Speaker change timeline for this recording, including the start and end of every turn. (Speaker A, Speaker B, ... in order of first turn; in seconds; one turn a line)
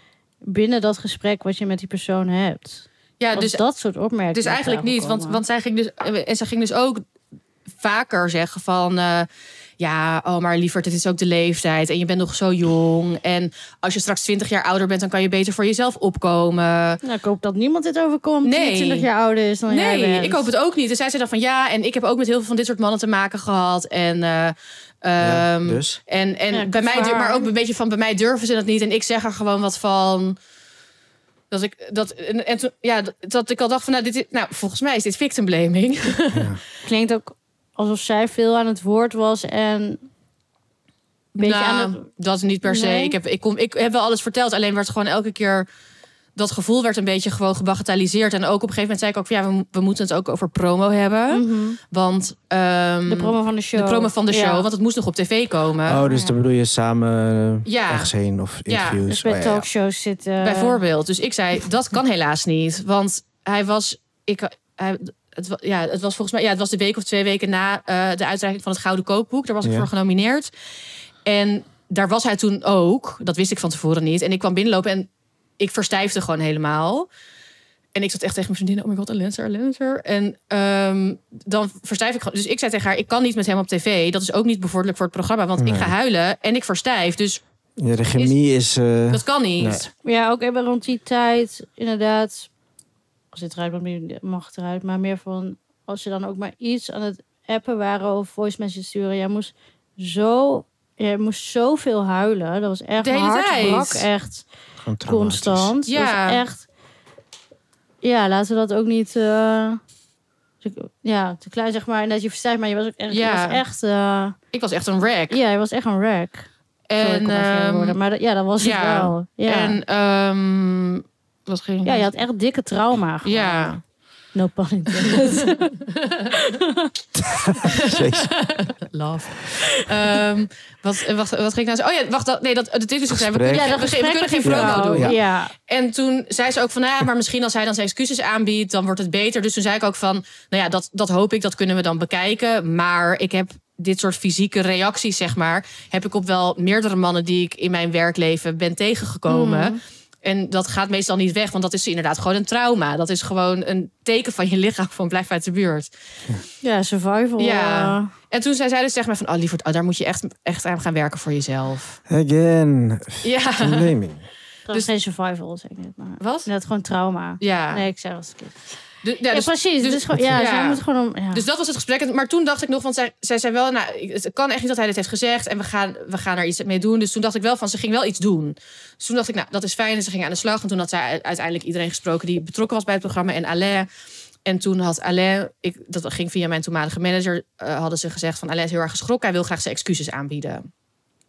Speaker A: 0.4-5.4
Speaker B: 3.2-3.6
Speaker B: 4.3-7.0
Speaker B: 7.8-9.3
Speaker B: 9.8-17.0
Speaker A: 17.0-20.5
Speaker B: 18.4-19.1
Speaker B: 19.7-30.4
Speaker C: 25.2-26.0
Speaker A: 26.5-27.5
Speaker B: 31.5-36.5
Speaker C: 36.3-36.6
Speaker A: 36.8-40.1
Speaker B: 41.3-45.7
Speaker A: 41.4-42.0
Speaker A: 42.6-43.1
Speaker B: 46.4-56.0
Speaker A: 51.3-51.8
Speaker A: 53.1-54.7
Speaker C: 55.9-59.7
Speaker A: 56.0-56.3
Speaker B: 57.6-58.1
Speaker B: 58.7-59.0
Speaker A: 59.1-60.8
Speaker B: 60.4-70.5
Speaker C: 69.6-69.9
Speaker B: 71.3-77.1
Speaker B: 77.9-87.4
Speaker C: 85.6-85.9
Speaker C: 87.8-89.9
Speaker B: 89.1-89.9
Speaker A: 90.0-92.5
Speaker A: 93.3-104.4
Speaker B: 103.0-104.1
Speaker C: 104.8-105.7
Speaker A: 105.0-106.7
Speaker B: 105.9-106.4
Speaker A: 108.0-109.8
Speaker A: 110.6-114.4
Speaker B: 113.1-113.6
Speaker B: 114.5-115.4
Speaker A: 115.3-116.5
Speaker B: 116.9-118.0
Speaker A: 117.0-119.8
Speaker B: 118.6-122.0
Speaker A: 121.8-123.7
Speaker B: 123.2-123.8
Speaker A: 124.3-126.9
Speaker B: 125.0-126.4
Speaker C: 127.2-128.3
Speaker B: 127.6-155.9
Speaker C: 133.1-133.8
Speaker A: 133.4-135.5
Speaker C: 134.4-135.2
Speaker A: 149.3-149.8
Speaker A: 156.6-158.1
Speaker B: 157.4-162.0
Speaker C: 162.1-164.2
Speaker B: 163.2-163.9
Speaker A: 164.7-168.6
Speaker B: 166.2-166.5
Speaker B: 167.4-167.8
Speaker B: 169.0-183.9
Speaker A: 169.3-171.4
Speaker B: 184.4-190.7